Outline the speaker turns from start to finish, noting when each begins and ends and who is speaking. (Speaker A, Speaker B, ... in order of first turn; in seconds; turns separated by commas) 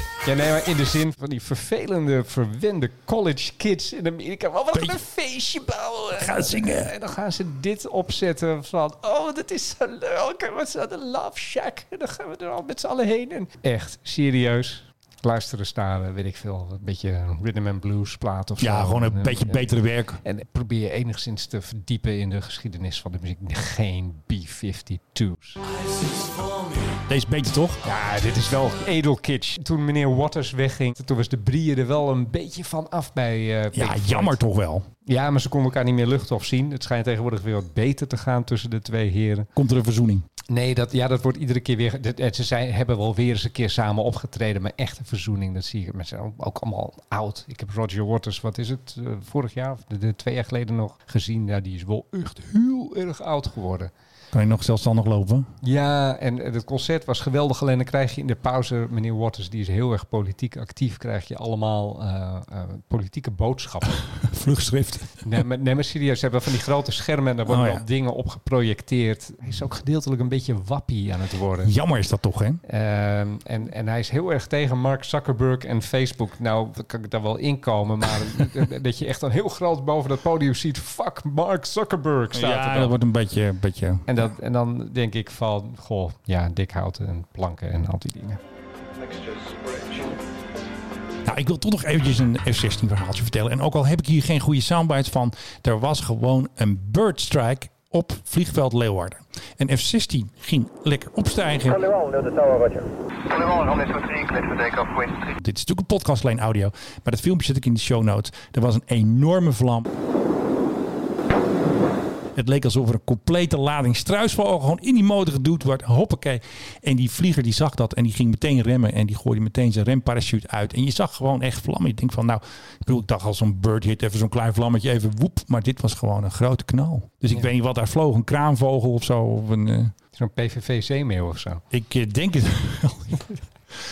Speaker A: 0.2-19.7, Speaker B: 4.7-5.0, Speaker B: 6.2-6.9, Speaker B: 18.6-20.2, Speaker A: 20.2-25.6, Speaker B: 25.8-27.8, Speaker A: 27.8-34.4, Speaker B: 33.7-34.9, Speaker A: 35.0-39.5, Speaker B: 39.5-40.2, Speaker A: 40.5-53.9, Speaker B: 54.3-55.5, Speaker A: 55.6-64.0, Speaker B: 64.0-65.4, Speaker A: 65.2-71.7, Speaker B: 67.5-67.8, Speaker B: 71.6-72.6, Speaker A: 72.7-82.9, Speaker B: 82.3-84.1, Speaker A: 84.1-88.4, Speaker C: 89.1-89.9, Speaker B: 91.2-101.9, Speaker C: 102.0-102.6, Speaker C: 103.3-105.3, Speaker B: 105.4-109.9, Speaker B: 112.3-129.9, Speaker A: 130.1-131.6, Speaker B: 131.7-133.3